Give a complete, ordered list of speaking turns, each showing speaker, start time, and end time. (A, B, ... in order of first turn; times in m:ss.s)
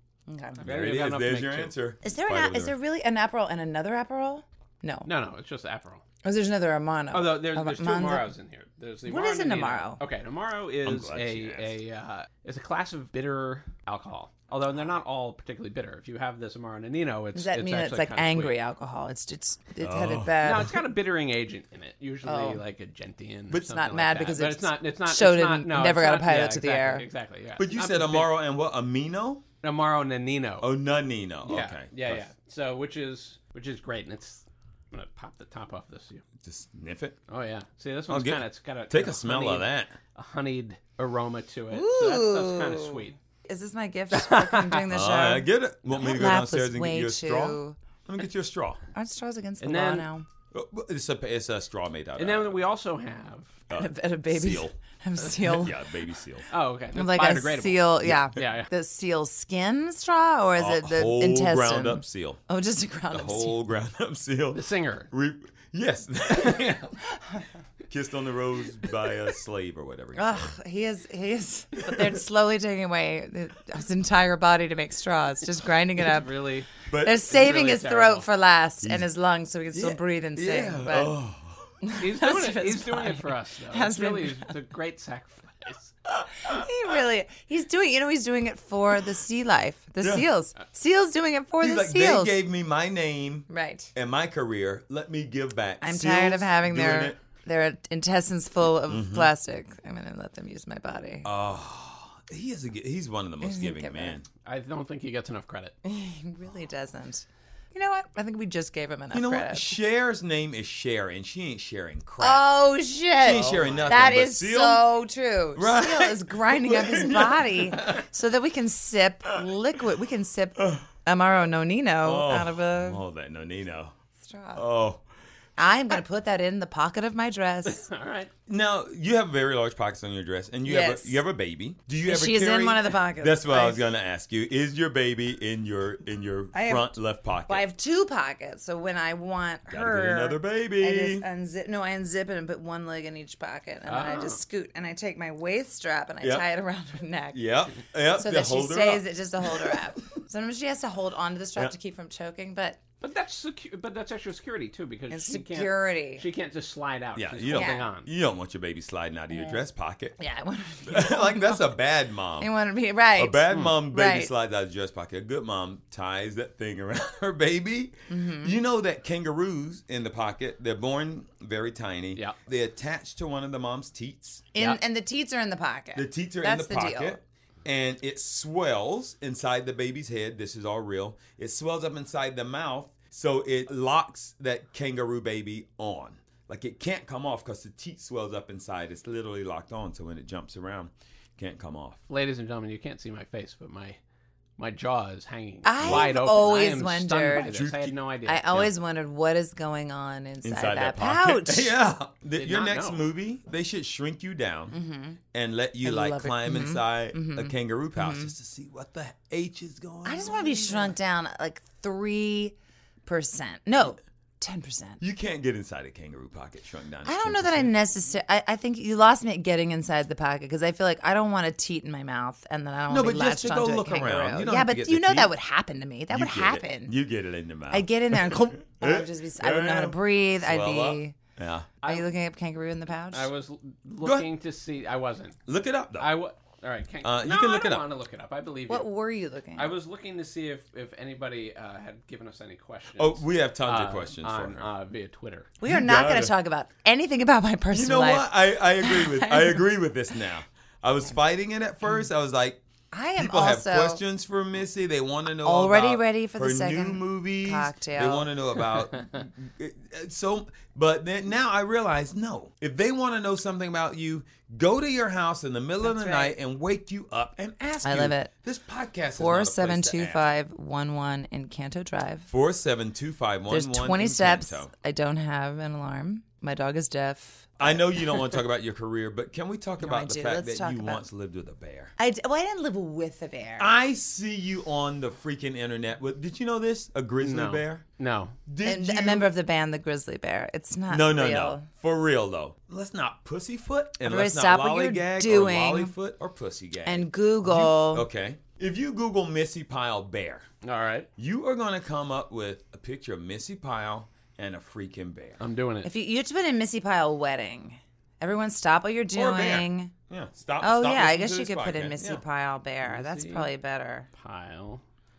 0:00.3-0:00.6 A
0:00.6-0:01.7 B
0:00.6-0:02.8 C
0:02.0-0:05.1 A
0:05.0-0:06.0 B
0:06.2-0:08.3 A
0:07.1-0:18.5 B
0:09.0-0:10.0 A
0:10.8-0:11.8 C
0:17.3-0:20.7 A
0:19.8-0:20.7 C
0:20.4-0:28.3 B
0:22.2-0:22.6 A
0:23.5-0:27.0 A
0:27.6-0:29.4 C
0:29.6-0:30.7 B
0:30.6-0:32.2 C
0:31.4-0:36.2 B
0:36.4-0:37.2 C
0:37.3-0:43.2 B
0:38.1-0:39.9 C
0:41.7-0:47.8 A
0:44.1-0:44.8 B
0:44.9-0:48.8 C
0:48.9-0:50.2 A
0:49.6-0:50.1 B
0:50.5-0:52.6 C
0:52.2-0:53.6 B
0:53.7-0:54.8 C
0:53.7-0:55.8 A
0:55.3-0:56.5 C
0:56.5-0:58.7 B
0:56.9-1:03.6 A
0:58.0-0:58.4 C
1:00.6-1:02.4 C
1:03.1-1:07.0 C
1:04.5-1:05.1 B
1:07.9-1:10.5 C
1:10.1-1:16.3 A
1:16.0-1:18.3 B
1:16.9-1:17.2 C
1:17.0-1:21.1 A
1:19.7-1:21.7 C
1:21.8-1:24.5 A
1:22.0-1:25.9 B
1:26.4-1:32.4 A
1:30.0-1:30.3 C
1:31.6-1:37.2 C
1:33.5-1:33.9 A
1:35.8-1:41.3 A
1:38.9-1:39.3 C
1:41.2-1:44.2 C
1:43.4-1:44.2 A
1:44.4-1:45.7 B
1:45.8-1:49.8 A
1:49.1-1:52.4 C
1:52.2-2:03.0 A
1:53.2-1:54.8 C
1:53.3-1:53.9 B
1:55.6-1:58.0 C
2:00.6-2:00.8 C
2:02.0-2:03.9 C
2:04.2-2:04.6 A
2:04.5-2:05.0 C
2:05.6-2:07.8 A
2:07.6-2:08.3 B
2:08.5-2:17.6 C
2:10.6-2:11.2 A
2:12.0-2:13.8 A
2:16.5-2:16.9 A
2:17.4-2:27.5 A
2:19.7-2:21.2 C
2:23.9-2:24.4 B
2:27.3-2:29.8 C
2:28.1-2:32.8 A
2:33.0-2:38.1 B
2:35.1-2:36.2 A
2:37.1-2:40.2 C
2:37.5-2:37.8 A
2:40.2-2:41.7 A
2:40.9-2:42.5 C
2:42.4-2:44.3 A
2:43.2-2:54.5 C
2:48.1-2:48.6 A
2:54.5-2:57.2 A
2:55.9-3:12.0 C
3:12.1-3:14.0 B
3:14.6-3:18.7 B
3:15.6-3:17.6 A
3:15.8-3:16.1 C
3:17.4-3:18.0 C
3:18.2-3:21.7 A
3:20.4-3:24.8 C
3:22.4-3:23.0 B
3:24.7-3:25.2 A
3:25.3-3:30.9 C
3:25.8-3:28.3 A
3:30.0-3:32.5 A
3:33.0-3:35.0 A
3:35.0-3:37.7 C
3:37.0-3:46.9 A
3:42.9-3:45.3 C
3:46.1-3:51.7 C
3:47.7-3:51.2 A
3:51.8-3:53.3 A
3:53.1-3:55.4 B
3:54.0-3:54.3 C
3:55.4-3:56.1 C
3:56.0-3:58.9 B
3:57.0-3:57.8 C
3:58.7-3:59.7 A
3:59.6-4:05.5 B
4:03.0-4:04.6 C
4:05.6-4:09.6 A
4:05.6-4:06.3 C
4:07.7-4:12.6 C
4:12.9-4:14.0 A
4:13.2-4:30.3 C
4:15.4-4:18.3 A
4:25.8-4:26.3 A
4:27.8-4:28.3 A
4:29.2-4:32.3 A
4:32.3-4:34.7 C
4:33.5-4:38.2 A
4:37.6-4:41.9 C
4:39.8-4:41.0 A
4:42.0-4:43.7 A
4:43.6-4:47.8 C
4:47.2-4:48.4 B
4:48.5-4:49.3 C
4:48.6-4:51.7 A
4:50.9-5:00.5 C
4:54.0-4:55.9 A
4:56.8-4:58.1 A
5:00.6-5:01.1 B
5:01.2-5:05.4 C
5:05.4-5:05.9 B
5:05.8-5:09.9 A
5:09.1-5:12.2 C
5:10.6-5:14.1 A
5:12.8-5:13.5 B
5:14.2-5:14.8 B